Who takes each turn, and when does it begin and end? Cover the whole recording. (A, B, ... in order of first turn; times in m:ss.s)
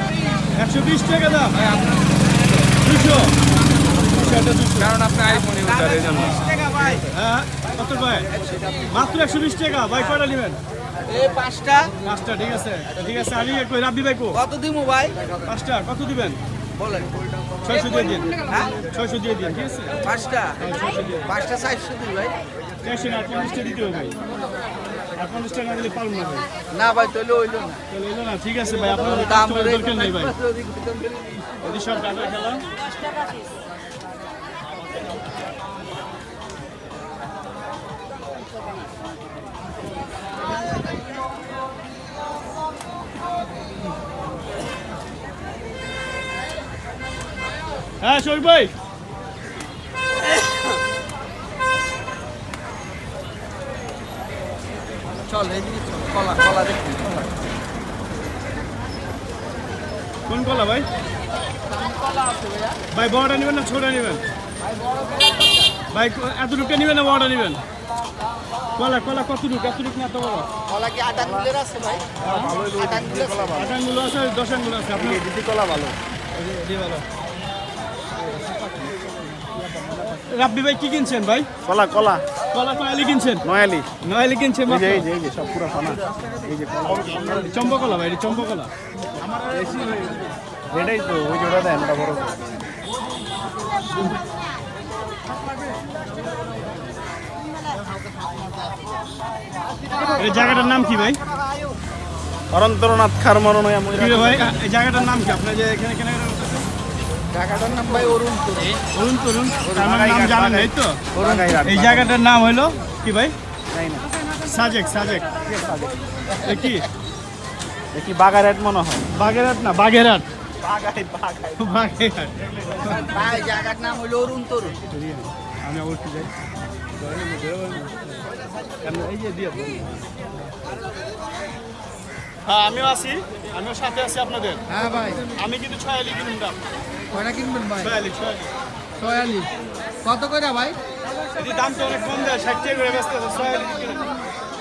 0:00.5-0:01.7 A
0:01.6-0:01.9 B
0:02.8-0:03.4 A
0:04.0-0:05.0 A
0:04.8-0:07.1 B
0:05.7-0:06.4 A
0:07.0-0:08.3 A
0:08.4-0:08.9 B
0:08.9-0:10.6 A
0:11.1-0:12.1 B
0:12.0-0:14.4 A
0:14.3-0:15.3 B
0:15.5-0:16.4 A
0:16.8-0:17.1 B
0:17.6-0:20.0 A
0:17.7-0:18.7 B
0:20.0-0:22.4 B
0:20.6-0:21.3 A
0:22.8-0:24.2 A
0:25.2-0:26.5 A
0:26.7-0:27.8 B
0:27.9-0:30.4 A
0:28.8-0:31.4 B
0:31.6-0:32.6 A
0:48.0-0:48.7 A
0:55.3-0:57.3 B
1:00.3-1:00.9 A
1:01.9-1:02.8 B
1:02.9-1:04.2 A
1:05.9-1:07.6 A
1:08.8-1:10.5 A
1:10.7-1:12.2 B
1:11.2-1:11.5 C
1:12.2-1:13.8 C
1:12.2-1:12.5 A
1:12.8-1:13.6 B
1:13.5-1:15.2 A
1:14.9-1:16.0 C
1:16.3-1:17.0 A
1:20.1-1:21.5 A
1:21.6-1:22.2 C
1:22.5-1:23.4 A
1:23.4-1:23.9 C
1:24.0-1:25.1 A
1:24.7-1:27.6 C
1:27.1-1:28.7 A
1:29.4-1:29.9 C
1:29.6-1:30.1 A
1:30.7-1:32.4 C
1:40.1-1:41.2 A
1:42.5-1:44.6 C
1:44.0-1:46.7 A
1:47.3-1:48.8 B
1:48.9-1:53.4 A
1:49.7-1:52.2 C
1:51.2-1:51.5 B
1:53.7-1:54.1 C
1:54.4-1:55.3 A
1:55.4-1:56.0 C
1:56.4-1:56.9 A
1:57.9-1:59.1 C
1:59.1-2:00.3 A
2:00.6-2:01.7 C
2:01.6-2:03.2 A
2:02.9-2:04.8 B
2:04.9-2:06.3 A
2:07.0-2:08.2 A
2:08.8-2:10.1 A
2:12.4-2:14.6 A
2:14.7-2:15.3 B
2:15.3-2:16.6 A
2:17.1-2:18.0 B
2:17.8-2:18.5 A
2:19.0-2:19.5 B
2:20.0-2:20.8 B
2:21.4-2:24.1 A